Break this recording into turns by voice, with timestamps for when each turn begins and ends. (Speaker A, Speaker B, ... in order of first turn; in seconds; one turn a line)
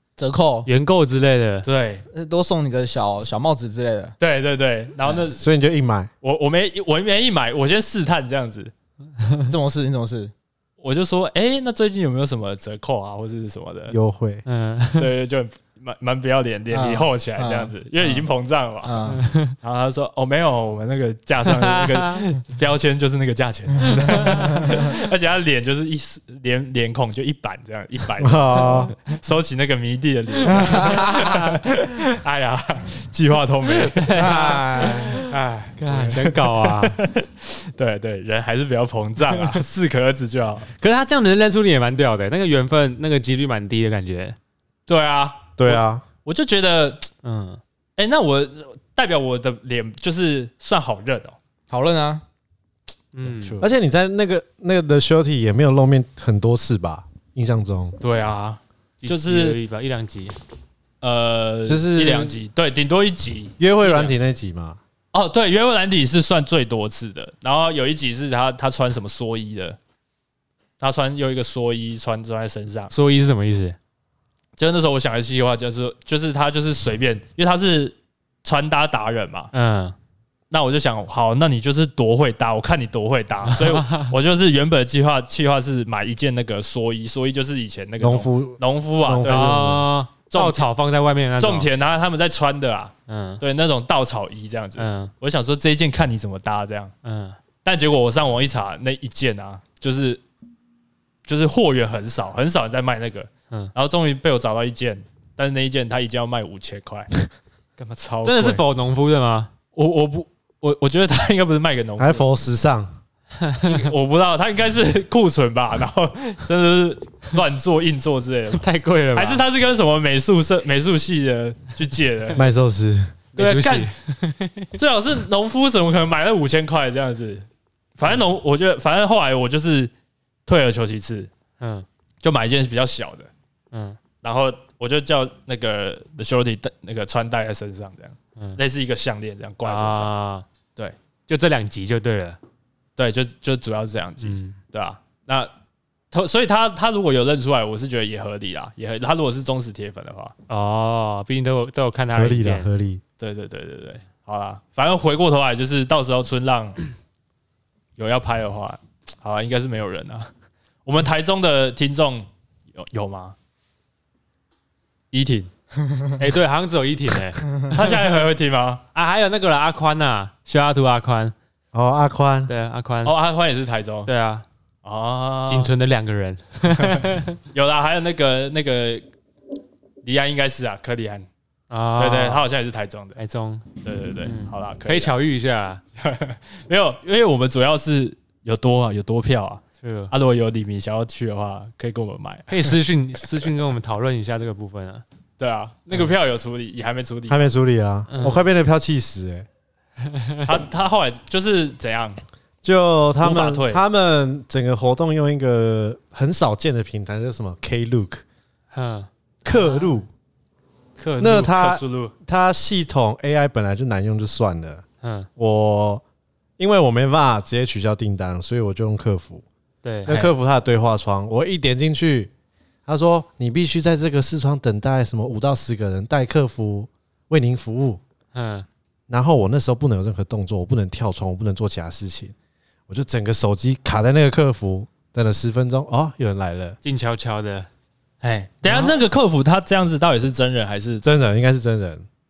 Speaker A: 0.2-0.7
Speaker B: 0.7-1.7
Speaker C: 1.6-2.0
Speaker A: 2.1-4.1
Speaker C: 4.2-5.4
Speaker D: 5.1-6.1
Speaker C: 6.2-8.7
Speaker B: 9.2-9.4
Speaker A: 9.5-10.3
Speaker C: 10.8-13.9
Speaker D: 13.9-14.4
Speaker B: 14.4-15.1
Speaker C: 15.0-19.0
Speaker A: 16.7-17.7
Speaker A: 18.8-19.2
Speaker B: 19.1-19.5
Speaker C: 19.6-40.7
Speaker B: 21.4-22.2
Speaker B: 24.0-24.3
Speaker D: 28.2-28.9
Speaker A: 30.6-31.4
Speaker B: 33.8-35.2
Speaker A: 34.1-35.2
Speaker B: 35.8-37.0
Speaker B: 39.2-39.6
Speaker B: 40.8-44.4
Speaker C: 44.9-47.1
Speaker D: 45.6-46.0
Speaker B: 47.2-47.6
Speaker C: 48.0-51.4
Speaker A: 51.7-52.2
Speaker B: 53.1-53.6
Speaker C: 53.2-53.7
Speaker D: 53.6-58.0
Speaker C: 58.0-59.6
Speaker B: 59.0-60.4
Speaker C: 61.0-64.1
Speaker D: 61.7-62.4
Speaker D: 63.6-64.8
Speaker C: 65.1-69.8
Speaker C: 70.8-72.9
Speaker B: 72.9-73.8
Speaker C: 74.6-79.5
Speaker B: 79.5-79.9
Speaker C: 80.5-89.8
Speaker B: 83.5-84.1
Speaker D: 88.0-89.9
Speaker B: 89.2-91.7
Speaker C: 90.3-90.7
Speaker C: 91.4-96.9
Speaker B: 93.1-93.4
Speaker B: 94.8-95.1
Speaker B: 97.0-97.4
Speaker C: 97.6-100.2
Speaker C: 101.2-107.1
Speaker C: 107.8-108.6
Speaker B: 108.2-109.5
Speaker C: 109.7-112.3
Speaker D: 112.0-112.9
Speaker B: 113.4-113.9
Speaker C: 113.6-118.6
Speaker B: 118.5-119.4
Speaker C: 119.1-122.4
Speaker D: 122.3-123.1
Speaker C: 123.3-123.9
Speaker B: 123.3-124.7
Speaker C: 124.8-129.9
Speaker C: 130.4-131.3
Speaker B: 131.6-131.8
Speaker C: 132.2-133.3
Speaker B: 133.7-134.0
Speaker C: 134.2-140.1
Speaker B: 139.6-140.4
Speaker B: 141.3-142.4
Speaker C: 143.0-145.5
Speaker B: 144.2-144.6
Speaker C: 146.1-150.3
Speaker B: 150.5-152.7
Speaker D: 152.1-153.0
Speaker C: 153.2-156.8
Speaker C: 158.0-160.3
Speaker C: 160.8-163.3
Speaker C: 165.1-165.5
Speaker B: 166.2-168.0
Speaker C: 167.7-168.8
Speaker B: 168.9-171.3
Speaker D: 171.7-172.5
Speaker B: 172.5-173.1
Speaker C: 173.0-174.1
Speaker B: 174.1-174.4
Speaker C: 174.8-175.7
Speaker B: 175.5-177.4
Speaker C: 176.7-179.1
Speaker C: 180.0-181.3
Speaker B: 181.7-182.4
Speaker C: 182.0-183.2
Speaker B: 183.2-183.7
Speaker C: 183.8-185.2
Speaker B: 184.2-185.8
Speaker C: 186.0-192.8
Speaker B: 189.8-190.1
Speaker B: 192.5-195.0
Speaker C: 195.4-197.5
Speaker D: 197.3-199.4
Speaker B: 198.1-198.5
Speaker B: 200.1-200.5
Speaker C: 200.4-202.2
Speaker D: 202.6-208.2
Speaker C: 203.2-203.8
Speaker B: 208.7-209.1
Speaker D: 209.4-210.1
Speaker C: 211.0-212.1
Speaker D: 211.2-214.8
Speaker B: 215.0-215.3
Speaker D: 215.4-216.0
Speaker D: 216.6-219.4
Speaker B: 219.8-220.2
Speaker D: 220.1-222.3
Speaker D: 222.9-228.0
Speaker B: 228.3-228.7
Speaker D: 229.1-232.3
Speaker D: 232.9-236.8
Speaker B: 236.8-237.7
Speaker C: 238.2-241.1
Speaker D: 241.0-242.0